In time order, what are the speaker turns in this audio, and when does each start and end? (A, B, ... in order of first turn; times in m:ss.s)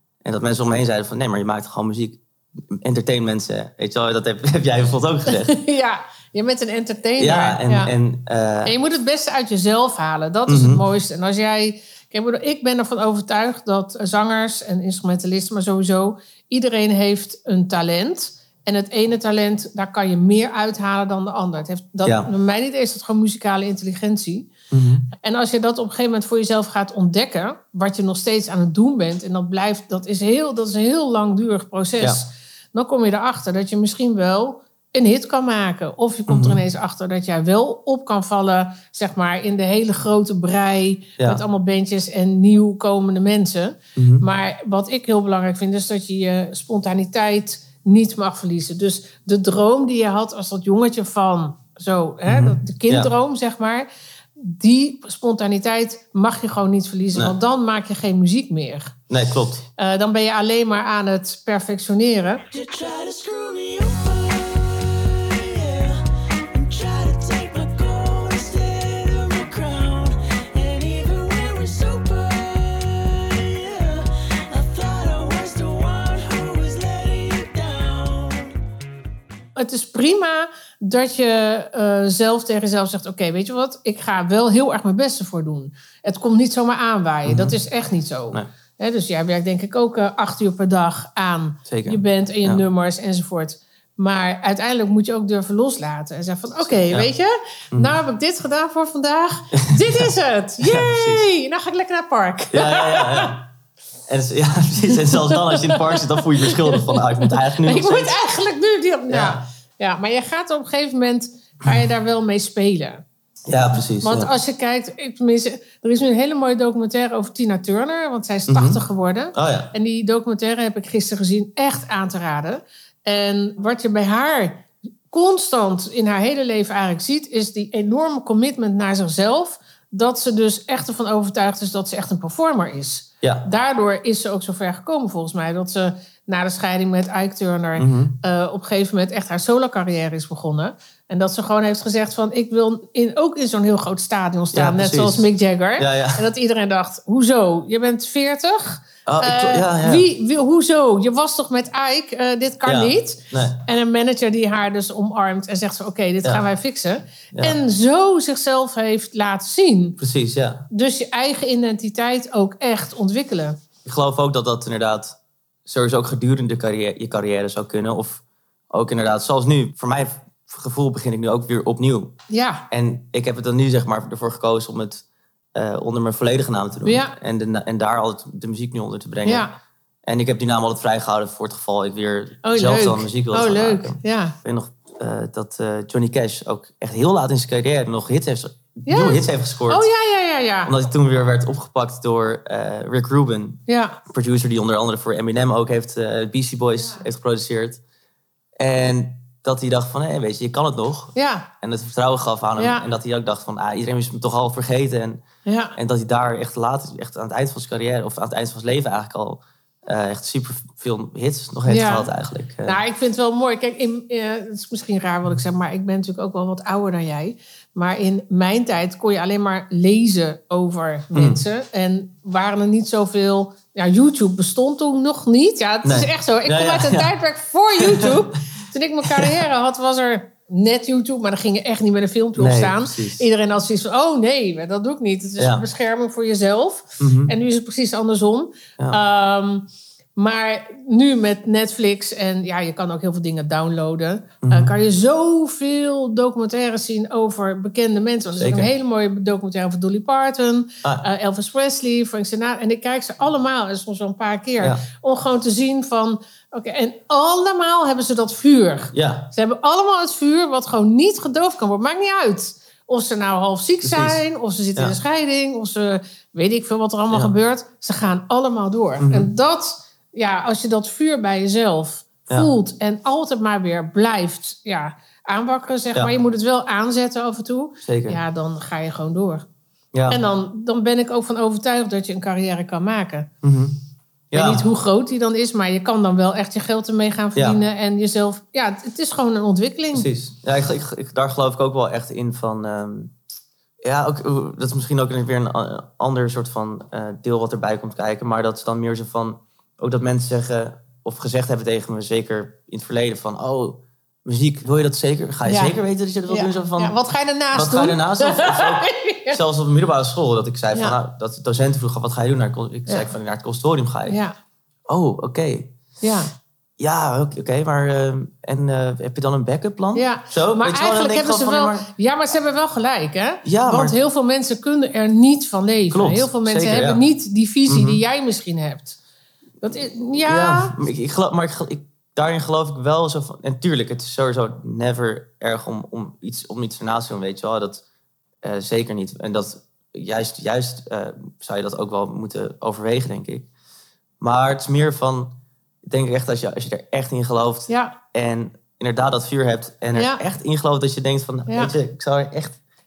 0:00.2-0:05.6 A
0:05.3-0:07.9 B
0:07.2-0:08.8 A
0:08.6-0:24.5 B
0:10.5-0:10.8 A
0:22.0-0:22.3 A
0:24.7-0:25.1 A
0:25.1-0:58.9 B
0:36.3-0:36.6 A
0:44.0-0:44.3 A
0:52.3-0:53.1 A
0:59.1-0:59.6 A
0:59.8-1:02.5 B
1:02.5-1:18.6 C
1:19.6-1:43.4 B
1:27.3-1:27.6 A
1:31.7-1:32.6 A
1:36.7-1:37.1 A
1:37.7-1:38.0 A
1:39.6-1:41.3 A
1:42.5-1:43.4 A
1:44.1-1:48.1 A
1:44.8-1:53.0 B
1:49.1-1:49.4 A
1:53.5-1:54.3 A
1:54.0-2:40.0 B
1:58.5-1:58.8 A
1:59.3-1:59.7 A
2:13.2-2:13.5 A
2:17.8-2:18.2 A
2:24.5-2:26.3 A
2:29.1-2:30.1 A
2:32.6-2:33.6 A
2:37.3-2:37.6 A
2:40.0-2:40.7 A
2:40.7-2:43.6 B
2:43.8-2:52.2 A
2:52.3-2:52.7 B
2:52.7-2:55.0 A
2:55.6-2:59.5 A
2:56.8-2:57.2 B
2:59.2-2:59.6 B
3:00.1-3:09.9 A
3:02.4-3:04.4 B
3:08.9-3:10.7 B
3:10.6-3:17.8 A
3:13.7-3:14.0 B
3:18.6-3:25.2 A
3:21.2-3:21.5 B
3:22.6-3:22.8 B
3:25.4-3:25.8 B
3:25.8-3:32.8 A
3:31.7-3:32.1 B
3:32.6-4:39.5 B
3:41.1-3:41.4 A
3:45.8-3:47.1 A
3:47.8-3:48.3 A
3:49.1-3:49.4 A
3:52.4-3:53.3 A
3:55.4-3:55.6 A
3:57.0-3:57.3 A
4:04.4-4:04.7 A
4:08.4-4:08.7 A
4:18.9-4:19.3 A
4:23.8-4:24.2 A
4:29.0-4:29.3 A
4:37.8-4:38.2 A
4:39.9-4:40.2 A
4:40.1-4:43.3 B
4:43.4-4:43.8 A
4:44.3-4:44.7 A
4:44.3-4:50.1 B
4:47.4-4:47.6 A
4:49.9-4:53.1 A
4:53.8-5:07.0 A
5:05.5-5:05.8 B
5:06.3-5:09.4 B
5:07.5-5:14.2 A
5:14.1-5:14.4 B
5:14.9-5:15.8 A
5:16.0-5:16.3 B
5:16.8-5:21.9 A
5:19.9-5:29.0 B
5:23.4-5:24.0 A
5:25.9-5:27.0 A
5:27.7-5:28.0 A
5:29.6-5:30.8 B
5:30.2-5:37.8 A
5:38.4-5:43.5 A
5:44.2-5:52.6 A
5:47.7-5:48.0 B
5:50.0-5:50.2 B
5:51.5-5:51.7 B